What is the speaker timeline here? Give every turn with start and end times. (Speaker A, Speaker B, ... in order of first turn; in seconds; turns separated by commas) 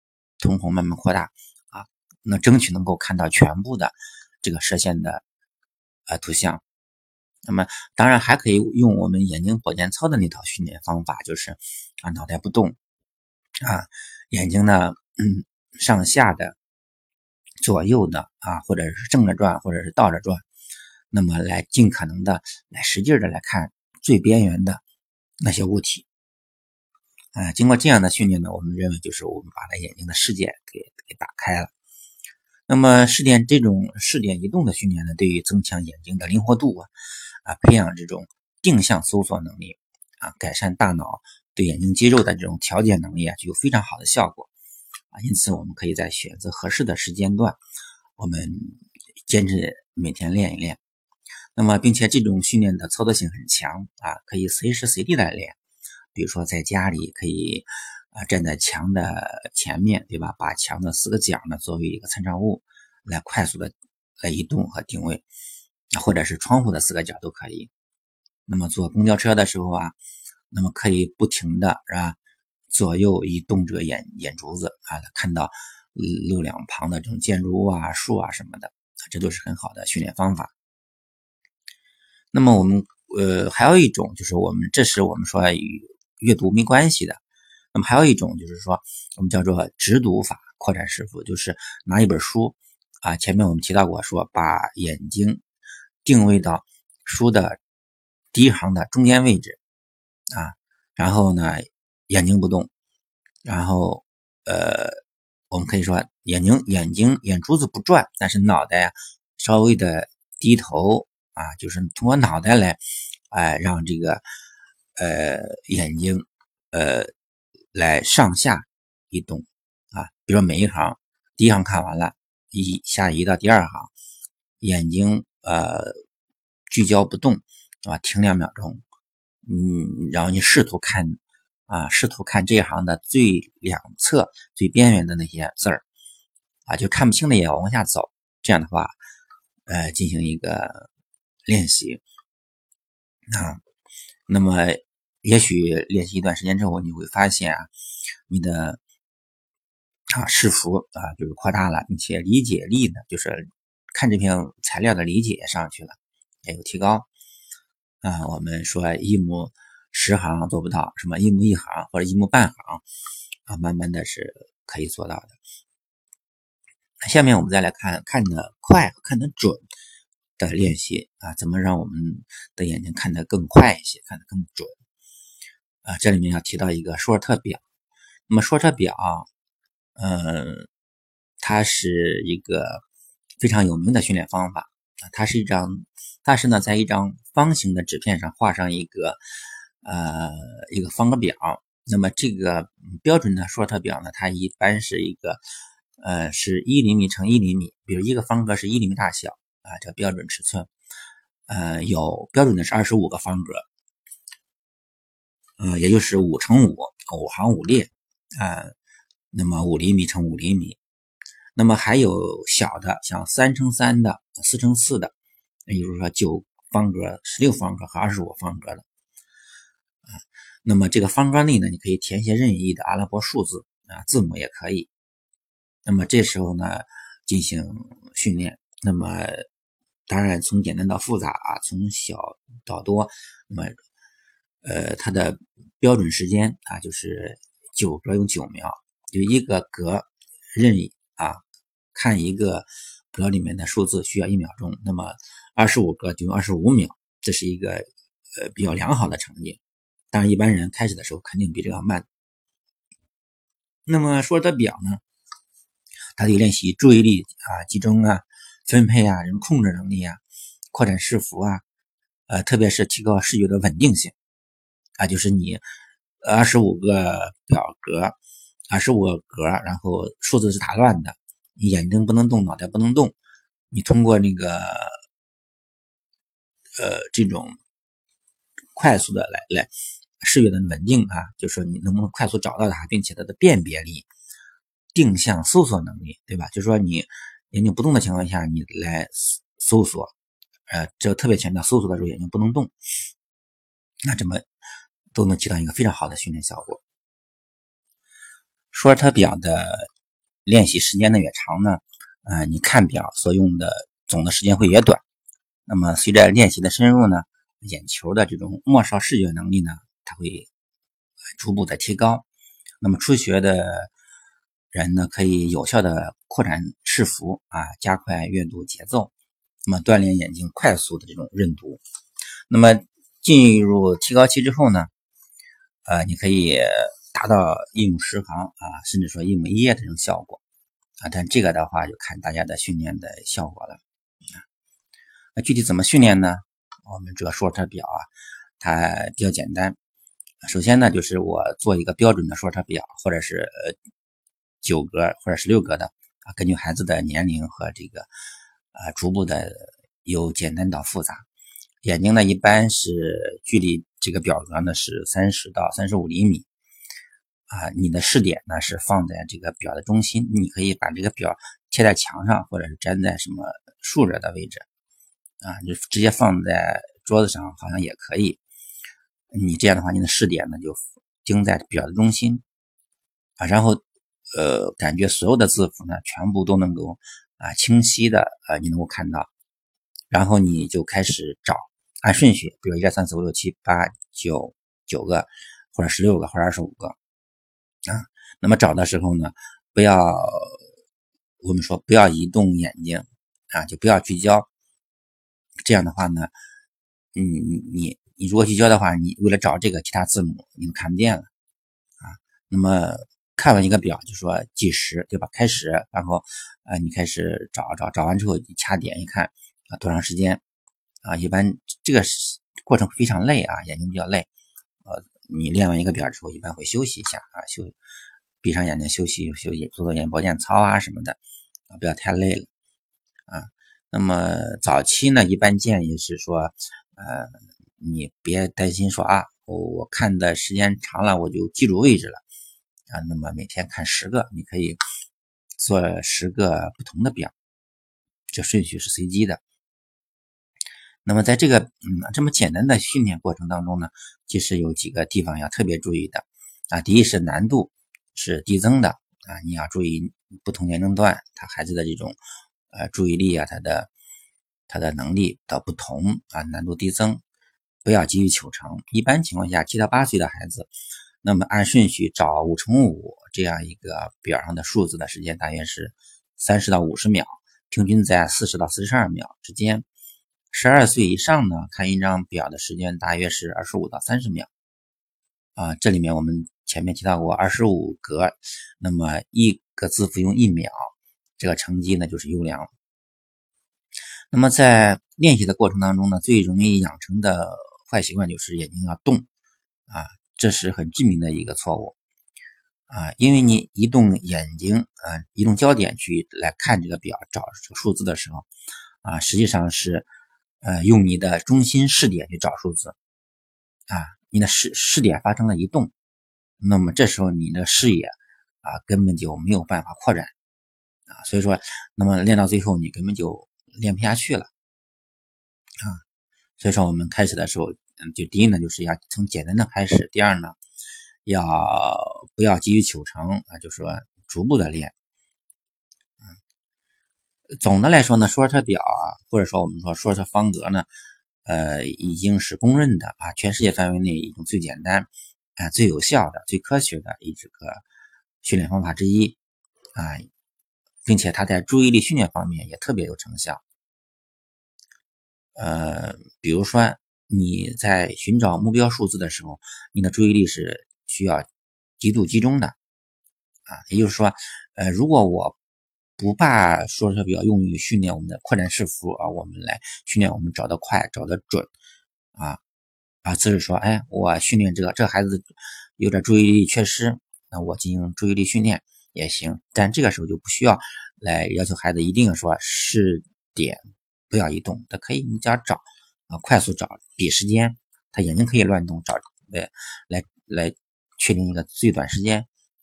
Speaker A: 0.4-5.2, Speaker A: 6.1-6.6, Speaker A: 7.5-12.8, Speaker A: 13.6-16.6, Speaker A: 17.6-20.4, Speaker A: 21.1-24.8, Speaker A: 25.4-26.1, Speaker A: 27.3-31.7, Speaker A: 32.7-36.9, Speaker A: 37.4-44.5, Speaker A: 45.1-47.6, Speaker A: 48.2-50.8, Speaker A: 51.5-55.6, Speaker A: 56.1-65.2, Speaker A: 65.9-67.7, Speaker A: 68.5-69.9, Speaker A: 70.5-72.2, Speaker A: 72.7-80.5, Speaker A: 82.3-87.2, Speaker A: 87.7-95.4, Speaker A: 96.0-97.6, Speaker A: 98.3-99.6, Speaker A: 100.3-102.7, Speaker A: 103.4-114.2, Speaker A: 115.0-117.1, Speaker A: 117.7-123.9, Speaker A: 124.6-126.0, Speaker A: 126.7-128.8, Speaker A: 129.4-135.8, Speaker A: 136.7-138.9, Speaker A: 139.7-140.9, Speaker A: 141.4-142.0, Speaker A: 143.3-143.6, Speaker A: 144.3-147.7, Speaker A: 148.3-148.8, Speaker A: 150.1-157.1, Speaker A: 158.0-162.8, Speaker A: 163.5-165.4, Speaker A: 167.1-169.6, Speaker A: 170.4-174.8, Speaker A: 175.8-177.6, Speaker A: 178.3-179.3, Speaker A: 180.0-180.7, Speaker A: 181.4-182.8, Speaker A: 183.4-189.2, Speaker A: 189.8-195.4, Speaker A: 196.0-200.7, Speaker A: 201.5-203.7, Speaker A: 205.6-208.8, Speaker A: 209.3-210.8, Speaker A: 211.6-215.1, Speaker A: 215.7-218.8, Speaker A: 220.6-224.9, Speaker A: 225.8-229.4, Speaker A: 230.1-233.8, Speaker A: 234.6-241.4, Speaker A: 241.9-249.6, Speaker A: 250.1-252.1, Speaker A: 253.9-255.0, Speaker A: 256.2-261.6, Speaker A: 262.3-264.1, Speaker A: 265.0-265.6, Speaker A: 266.2-268.2, Speaker A: 268.7-273.1, Speaker A: 273.7-275.0, Speaker A: 276.8-277.6, Speaker A: 278.8-279.7, Speaker A: 280.2-284.1, Speaker A: 284.9-290.1, Speaker A: 290.7-292.7, Speaker A: 294.1-294.4, Speaker A: 295.1-296.8, Speaker A: 298.7-299.9, Speaker A: 300.4-305.0, Speaker A: 305.7-310.5, Speaker A: 311.4-312.2, Speaker A: 312.8-313.9, Speaker A: 314.7-319.1, Speaker A: 319.7-321.8, Speaker A: 322.5-324.9, Speaker A: 325.9-330.4, Speaker A: 331.0-333.8, Speaker A: 335.4-338.1, Speaker A: 338.6-339.8, Speaker A: 340.4-343.8, Speaker A: 344.6-348.1, Speaker A: 348.8-351.3, Speaker A: 351.8-356.5, Speaker A: 357.5-364.6, Speaker A: 365.4-368.4, Speaker A: 369.3-372.4, Speaker A: 373.4-373.8, Speaker A: 374.3-379.3, Speaker A: 380.1-386.9, Speaker A: 387.9-390.7, Speaker A: 391.4-394.5, Speaker A: 395.6-396.3, Speaker A: 397.1-401.3, Speaker A: 402.0-410.4, Speaker A: 411.0-414.3, Speaker A: 414.9-417.8, Speaker A: 418.4-421.2, Speaker A: 421.7-422.5, Speaker A: 423.3-432.2, Speaker A: 432.9-434.8, Speaker A: 435.6-437.3, Speaker A: 438.3-439.4, Speaker A: 441.1-452.2, Speaker A: 452.7-453.9, Speaker A: 454.7-457.2, Speaker A: 457.8-460.7, Speaker A: 461.2-469.8, Speaker A: 470.5-474.5, Speaker A: 475.6-482.7, Speaker A: 484.3-489.3, Speaker A: 489.9-491.9, Speaker A: 492.9-498.5, Speaker A: 499.0-500.1, Speaker A: 500.6-502.9, Speaker A: 503.9-505.9, Speaker A: 506.6-510.3, Speaker A: 511.1-514.5, Speaker A: 516.6-520.6, Speaker A: 521.2-524.9, Speaker A: 527.6-530.9, Speaker A: 531.4-537.8, Speaker A: 538.4-539.4, Speaker A: 539.9-540.3, Speaker A: 541.1-543.6, Speaker A: 545.5-551.5, Speaker A: 552.0-552.8, Speaker A: 553.7-555.6, Speaker A: 556.2-561.7, Speaker A: 563.2-582.5